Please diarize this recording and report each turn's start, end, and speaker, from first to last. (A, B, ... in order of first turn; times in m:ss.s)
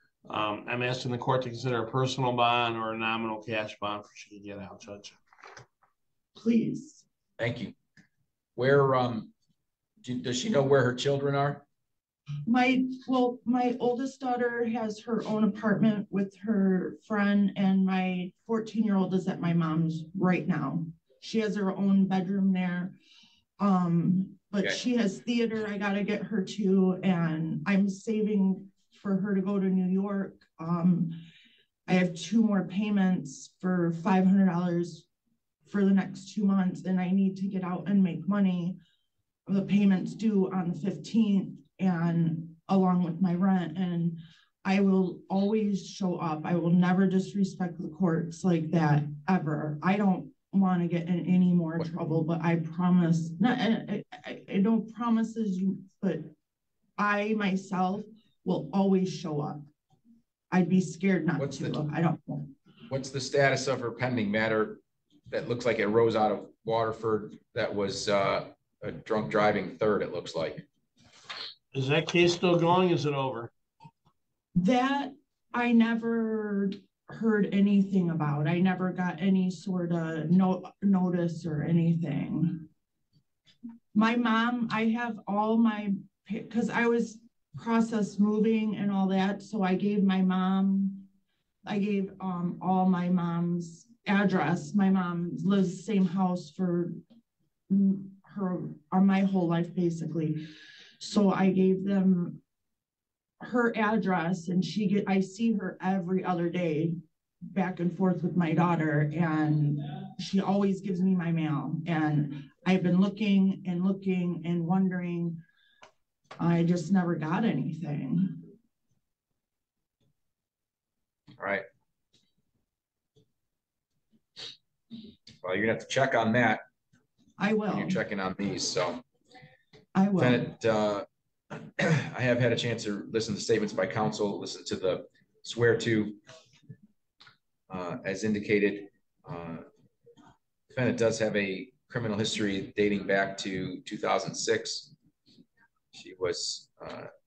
0:00.2-0:05.2 A
0:06.4-0:07.0 B
0:07.4-0:07.7 C
0:08.6-0:09.3 C
0:10.0-0:11.6 C
0:12.5-0:23.0 B
0:23.6-0:31.2 B
0:31.9-0:35.0 B
0:35.7-0:38.8 B
0:39.5-0:56.3 B
0:57.0-0:59.6 B
1:00.5-1:02.5 B
1:01.4-1:01.8 C
1:02.9-1:10.6 C
1:11.7-1:13.5 A
1:14.6-1:22.7 B
1:23.9-1:31.1 B
1:31.6-1:37.0 B
1:37.7-1:40.4 B
1:41.0-1:42.4 B
1:43.4-1:47.0 B
1:47.5-1:55.4 B
1:56.4-1:58.4 B
2:01.4-2:01.6 C
2:05.4-2:06.6 C
2:07.4-2:08.0 B
2:07.7-2:09.0 C
2:10.0-2:10.5 B
2:10.2-2:16.2 C
2:17.7-2:19.6 C
2:20.7-2:24.9 C
2:25.9-2:27.1 C